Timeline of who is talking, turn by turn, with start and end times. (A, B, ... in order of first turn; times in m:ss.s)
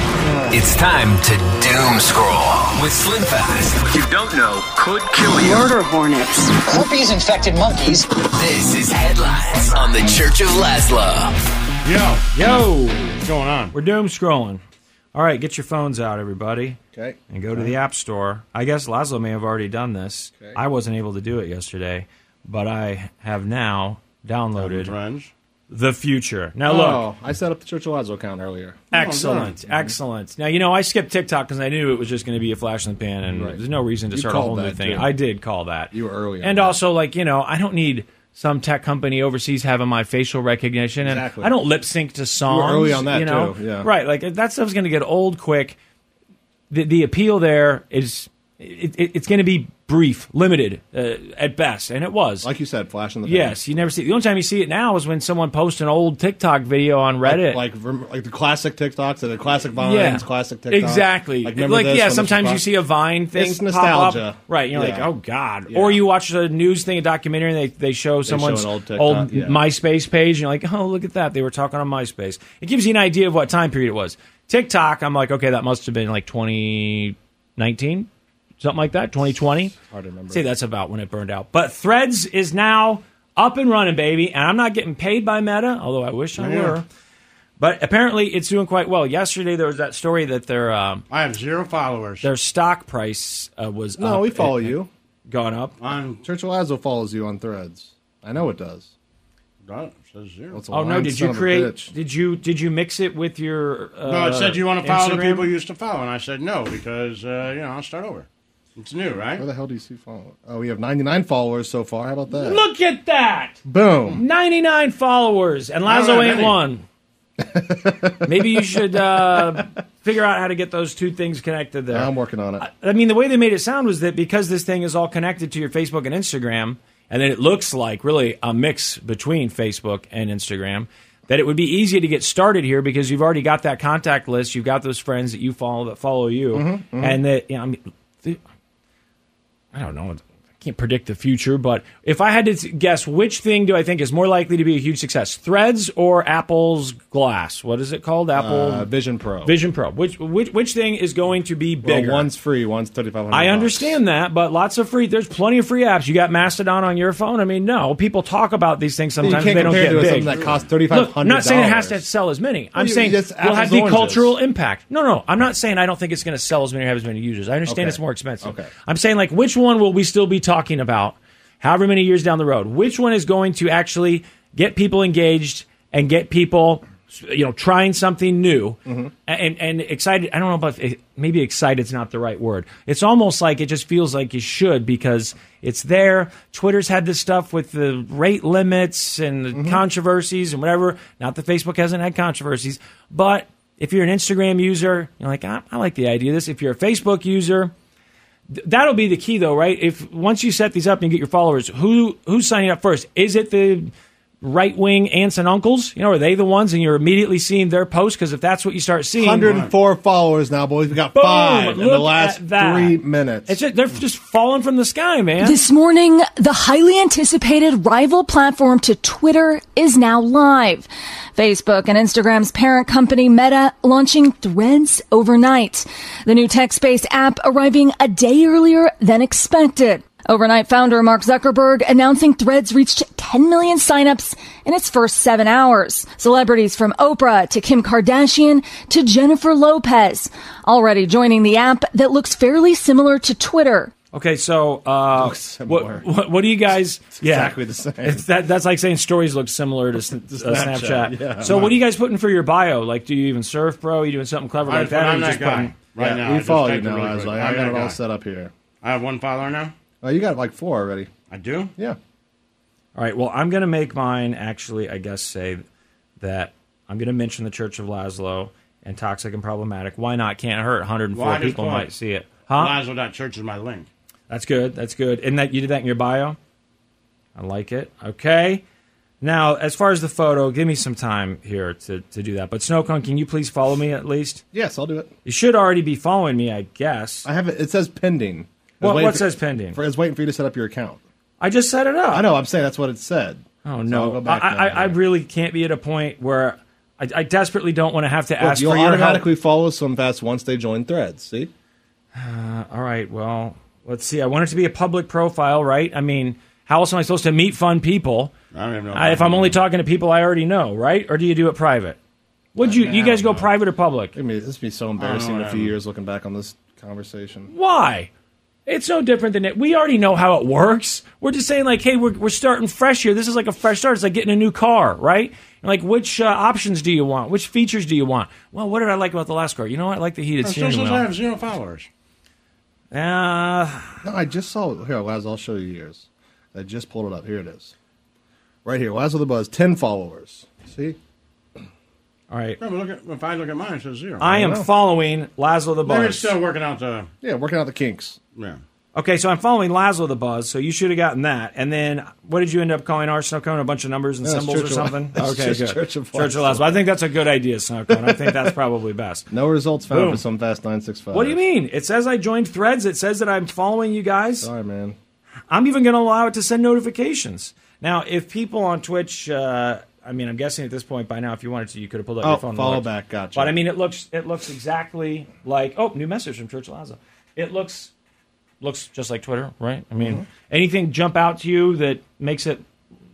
0:00.3-0:00.6 A
0:00.5-0:11.4 B
0:11.8-0:12.3 C
0:12.3-0:13.2 D
0:13.2-0:13.7 C
0:13.7-0:14.6 D
0:15.1-0:16.8 D
0:16.9-0:17.8 A
0:17.3-0:24.9 D
0:24.6-0:25.3 C
0:25.7-0:27.1 D
0:26.6-0:29.9 A
0:28.9-0:45.8 D
0:28.9-0:29.6 C
0:33.3-0:33.6 A
0:34.1-0:35.1 A
0:35.9-0:36.8 A
0:41.0-0:41.6 A
0:42.5-0:43.9 A
0:46.7-0:52.5 D
0:52.4-0:53.6 A
0:53.2-0:57.6 D
0:57.2-1:02.7 A
0:59.8-1:18.1 D
1:03.4-1:05.1 A
1:05.7-1:06.0 A
1:08.3-1:09.6 A
1:18.6-1:19.7 D
1:19.8-1:20.4 A
1:20.3-1:26.9 D
1:26.4-1:26.8 C
1:27.6-1:31.0 D
1:31.1-1:32.3 C
1:32.2-1:35.8 D
1:34.0-1:34.9 A
1:35.8-1:36.2 C
1:36.2-1:38.9 A
1:39.6-1:40.6 C
1:40.5-1:41.9 A
1:40.7-1:45.5 D
1:44.1-1:49.4 C
1:49.4-1:52.6 A
1:52.3-1:56.8 D
1:53.6-1:54.2 A
1:55.9-1:56.6 C
1:57.4-1:58.6 A
1:58.2-2:18.4 D
1:59.4-1:59.6 A
2:01.9-2:02.7 A
2:16.5-2:17.2 A
2:19.7-2:28.9 D
2:28.3-2:29.5 A
2:29.4-2:32.3 D
2:31.8-2:34.0 A
2:33.3-2:40.4 D
2:39.2-2:42.0 A
2:39.6-2:40.7 C
2:40.9-3:17.7 D
2:42.8-2:44.4 A
2:47.7-2:48.7 A
2:58.9-2:59.1 A
3:09.5-3:09.8 A
3:18.5-3:23.9 D
3:24.4-3:29.5 D
3:29.2-3:33.6 A
3:29.5-3:29.7 C
3:31.1-3:35.6 D
3:35.4-4:03.9 E
4:04.1-4:15.7 D
4:05.2-4:06.1 A
4:07.2-4:08.2 A
4:10.2-4:11.8 A
4:14.6-4:18.0 C
4:16.0-4:18.5 A
4:18.8-4:19.7 C
4:20.0-4:21.1 A
4:21.3-4:21.7 C
4:23.0-4:25.6 D
4:26.2-4:32.8 D
4:31.1-4:31.9 C
4:32.5-4:33.9 C
4:34.3-4:36.4 D
4:37.4-4:38.6 D
4:39.2-4:44.4 D
4:44.5-4:45.1 A
4:45.2-4:47.3 D
4:47.2-4:51.0 A
4:48.8-4:49.8 D
4:51.4-4:52.3 D
4:52.1-4:55.0 A
4:53.6-4:59.3 D
4:58.4-5:01.5 A
5:02.2-5:08.3 D
5:08.5-5:09.6 C
5:08.9-5:12.0 D
5:12.6-5:14.1 D
5:12.6-5:13.5 A
5:14.2-5:17.5 A
5:15.0-5:15.7 C
5:17.5-5:18.1 D
5:18.7-5:31.1 D
5:30.4-5:31.9 C
5:32.9-5:34.0 D
5:34.0-5:37.7 A
5:38.6-5:41.0 A
5:42.3-5:42.6 D
5:42.6-5:44.2 C
5:44.2-5:46.3 D
5:44.3-5:44.7 A
5:45.8-5:47.1 C
5:47.2-5:48.2 A
5:49.0-5:59.3 D
5:54.2-5:56.9 A
5:57.9-5:58.5 A
5:59.3-6:01.4 A
5:59.9-6:00.2 D
6:01.1-6:04.5 D
6:04.4-6:05.0 A
6:05.5-6:17.9 D
6:12.2-6:13.6 A
6:18.6-6:22.6 D